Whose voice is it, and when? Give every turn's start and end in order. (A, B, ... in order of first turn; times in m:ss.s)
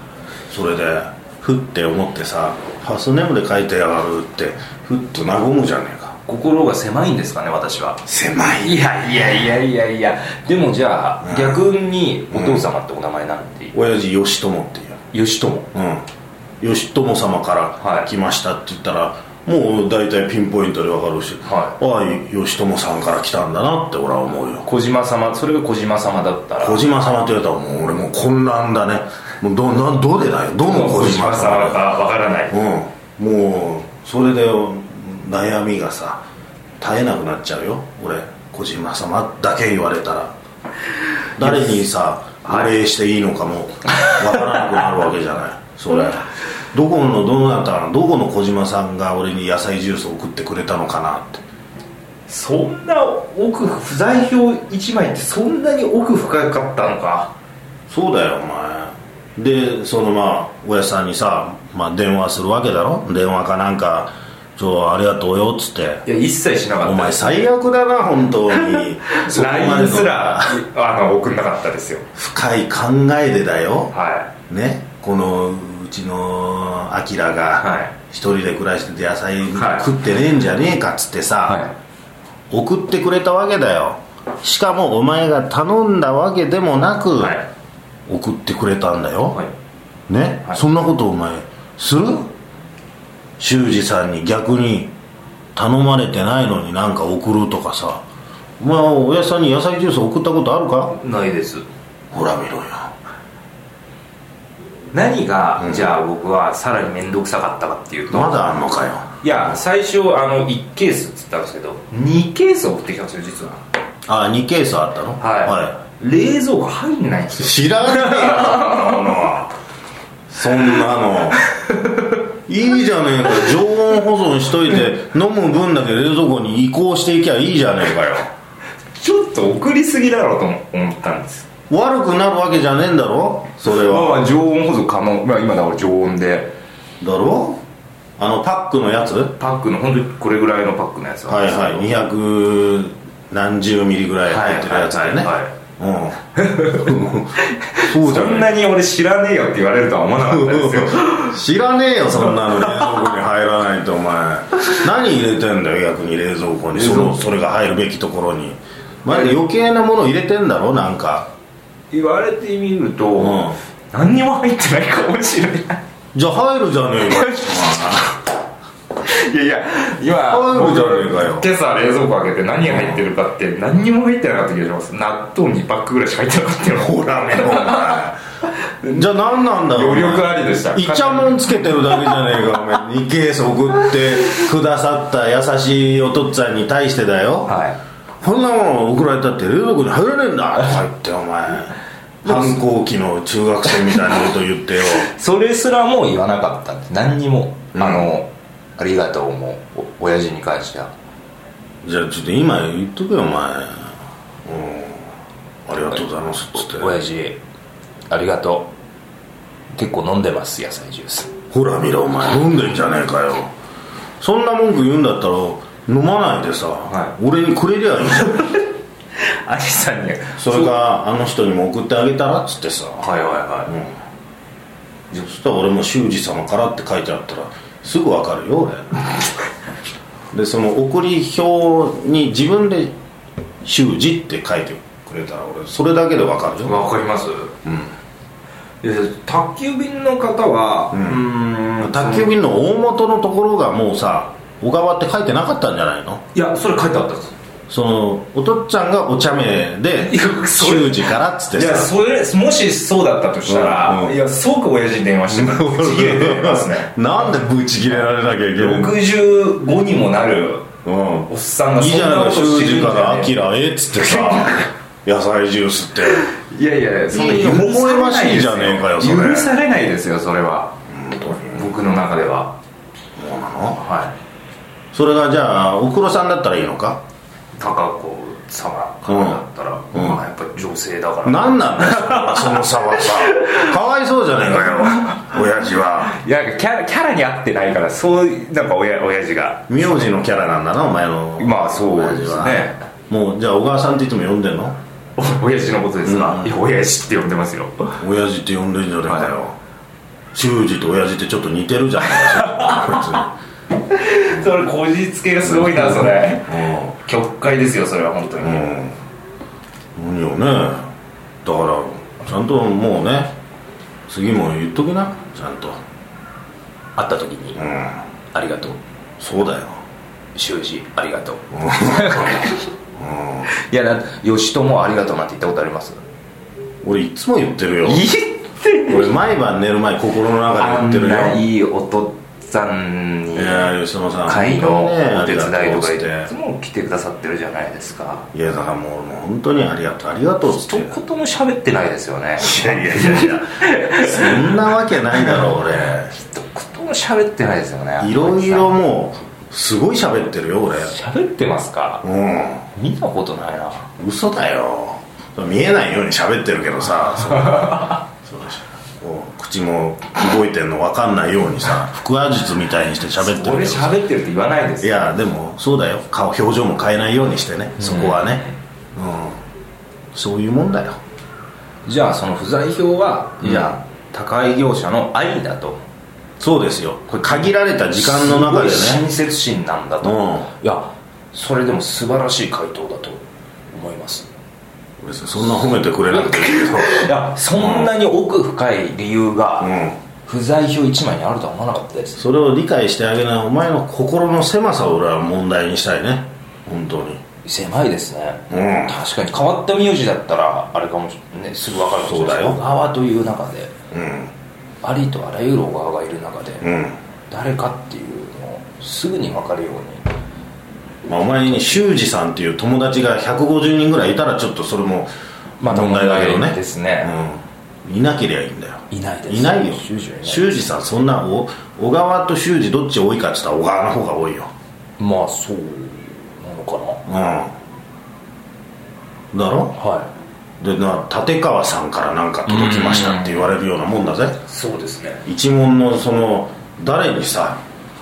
0:00.5-0:06.2 A
0:06.3-0:08.0 B
0:08.1-0:08.8 A
0:08.6-0:13.8 B
0:11.2-0:11.6 A
0:12.3-0:12.6 A
0:13.7-0:15.0 A
0:15.1-0:15.7 B
0:15.7-0:16.0 A
0:16.6-0:24.7 A
0:17.8-0:18.1 B
0:21.4-0:21.8 B
0:24.6-0:26.8 B
0:26.6-0:31.8 A
0:30.6-0:32.6 B
0:32.5-0:36.2 A
0:36.8-0:40.3 A
0:41.4-0:51.4 A
0:41.4-0:41.8 B
0:42.4-0:42.8 B
0:44.0-0:44.6 B
0:52.3-0:57.3 B
0:57.9-1:06.0 A
1:06.0-1:07.5 B
1:06.8-1:10.6 A
1:08.6-1:12.1 B
1:12.2-1:13.9 A
1:13.9-1:14.3 B
1:14.5-1:21.6 A
1:17.6-1:17.9 B
1:19.6-1:19.9 B
1:21.5-1:21.7 B
1:22.5-1:27.4 A
1:27.2-1:27.5 B
1:28.1-1:29.4 A
1:30.1-1:32.3 A
1:33.4-1:34.9 A
1:35.6-1:38.0 A
1:38.6-1:41.0 A
1:40.9-1:41.6 B
1:42.1-1:42.9 A
1:44.9-1:48.4 B
1:45.6-1:45.9 A
1:48.1-1:49.2 A
1:49.2-1:53.6 B
1:54.1-1:55.8 A
1:55.2-1:59.3 B
1:57.3-1:59.5 A
2:00.3-2:01.4 A
2:01.6-2:02.2 B
2:02.5-2:08.3 A
2:09.0-2:11.5 B
2:11.7-2:14.2 A
2:13.7-2:16.6 B
2:17.0-2:17.6 A
2:18.2-2:19.4 A
2:19.4-2:21.9 B
2:21.3-2:28.6 A
2:24.3-2:25.5 B
2:26.4-2:31.4 B
2:30.2-2:41.3 A
2:32.3-2:33.0 B
2:36.7-2:37.3 B
2:41.9-2:45.8 B
2:43.2-2:43.6 A
2:46.1-2:48.2 A
2:47.1-2:47.7 B
2:49.0-2:58.1 B
2:50.3-2:51.5 A
2:52.6-2:53.0 A
2:56.8-2:58.2 A
2:58.8-2:59.1 B
2:58.9-3:07.6 A
2:59.7-3:02.4 B
3:07.5-3:07.8 B
3:08.2-3:15.1 A
3:12.2-3:12.6 B
3:14.9-3:20.9 B
3:17.8-3:18.1 A
3:21.8-3:23.9 A
3:24.4-3:25.1 A
3:25.7-3:27.0 A
3:26.6-3:27.4 B
3:28.1-3:28.7 B
3:29.7-3:31.3 B
3:31.5-3:33.5 A
3:34.2-3:38.4 A
3:36.9-3:37.2 B
3:38.2-3:38.6 B
3:39.2-3:40.8 B
3:40.4-3:43.1 A
3:43.0-3:43.7 B
3:43.7-3:43.9 A
3:45.1-3:49.1 A
3:50.3-3:53.0 A
3:53.6-3:56.8 A
3:56.6-3:57.5 B
3:57.6-3:57.9 A
3:58.8-4:02.3 B
4:00.9-4:01.3 A
4:01.8-4:06.2 A
4:06.3-4:07.4 B
4:07.7-4:11.9 A
4:10.0-4:17.0 B
4:13.5-4:14.2 A
4:15.3-4:18.9 A
4:18.6-4:20.7 B
4:20.8-4:26.3 A
4:21.3-4:23.4 B
4:23.9-4:24.7 B
4:26.2-4:30.8 B
4:27.1-4:29.6 A
4:30.9-4:31.7 A
4:31.4-4:32.6 B
4:33.2-4:33.8 A
4:33.8-4:34.2 B
4:34.9-4:37.0 A
4:37.6-4:43.7 B
4:39.1-4:39.4 A
4:39.9-4:40.2 A
4:41.2-4:46.2 A
4:44.6-4:45.2 B
4:46.0-4:50.0 B
4:49.7-4:54.8 A
4:51.4-4:52.8 B
4:55.2-4:58.0 B
4:56.0-4:56.6 A
4:58.0-4:59.6 A
4:59.1-4:59.3 B
5:00.3-5:03.3 A
5:02.1-5:03.2 B
5:03.9-5:08.8 B
5:05.4-5:07.0 A
5:08.4-5:09.0 A
5:10.0-5:10.9 A
5:11.4-5:13.4 A
5:14.1-5:15.8 A
5:17.0-5:17.6 B
5:17.6-5:18.0 A
5:18.3-5:18.8 B
5:19.2-5:19.8 A
5:20.4-5:22.7 B
5:21.5-5:23.5 A
5:23.5-5:26.0 B
5:26.8-5:28.0 A
5:27.8-5:29.1 B
5:28.9-5:31.4 A
5:30.6-5:33.8 B
5:33.4-5:36.3 A
5:34.3-5:38.3 B
5:38.3-5:41.0 A
5:40.5-5:48.8 B
5:42.4-5:46.1 A
5:48.0-5:50.9 A
5:50.8-5:52.0 B
5:52.0-5:52.7 A
5:52.8-5:53.9 B
5:54.0-6:04.0 A
5:57.3-5:58.0 B
6:03.2-6:05.1 B
6:04.8-6:09.4 A
6:07.8-6:08.5 B
6:10.1-6:11.0 A
6:11.9-6:15.8 B
6:13.4-6:13.8 A
6:16.4-6:19.0 A
6:17.1-6:24.3 B
6:20.0-6:20.5 A
6:25.0-6:27.9 A
6:26.1-6:32.2 B
6:29.6-6:30.0 A
6:32.2-6:37.2 A
6:37.4-6:43.7 B
6:38.5-6:39.0 A
6:42.0-6:42.6 A
6:43.9-6:44.3 A
6:44.8-6:46.7 B
6:46.6-6:47.0 A
6:47.3-6:50.0 B
6:51.1-6:55.1 A
6:51.5-6:51.8 B
6:55.6-6:57.1 B
6:55.6-7:04.5 A
6:58.9-7:00.7 B
7:05.0-7:07.0 B
7:07.1-7:07.5 A
7:09.3-7:09.8 A
7:09.8-7:10.1 B
7:10.6-7:14.4 A
7:12.5-7:13.5 B
7:14.5-7:15.2 B
7:15.3-7:17.6 A